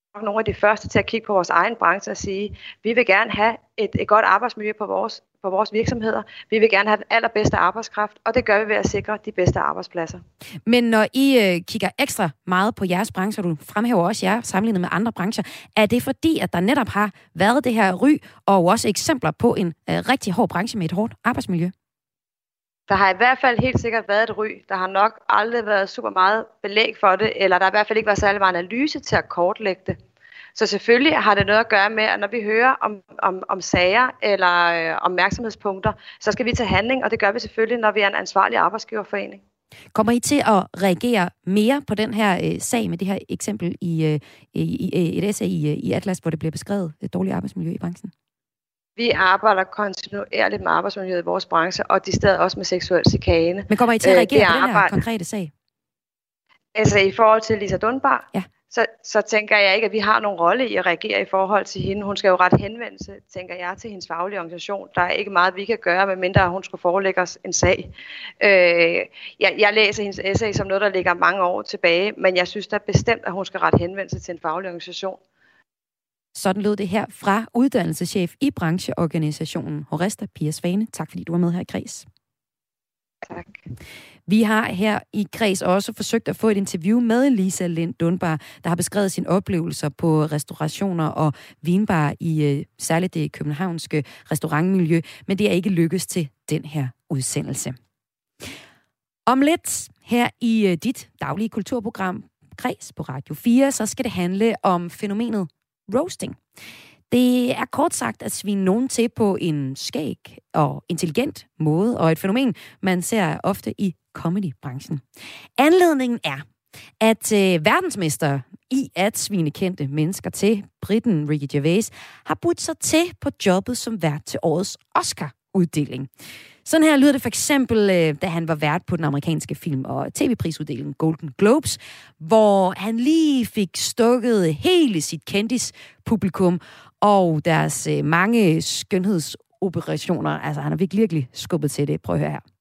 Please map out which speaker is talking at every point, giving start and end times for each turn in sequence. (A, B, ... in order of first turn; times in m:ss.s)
0:00.2-0:10.2 A
0:10.7-0:21.7 B
0:22.9-0:30.0 A
0:30.6-0:39.4 A
0:39.9-0:48.1 B
0:49.0-0:55.0 A
0:53.7-0:55.5 B
0:56.8-1:07.9 A
1:08.4-1:15.2 A
1:16.4-1:22.1 B
1:23.3-1:23.6 A
1:24.3-1:37.8 B
1:39.3-1:46.4 B
1:47.1-1:55.0 B
1:55.6-1:56.4 B
1:57.0-2:06.1 B
2:06.6-2:22.4 B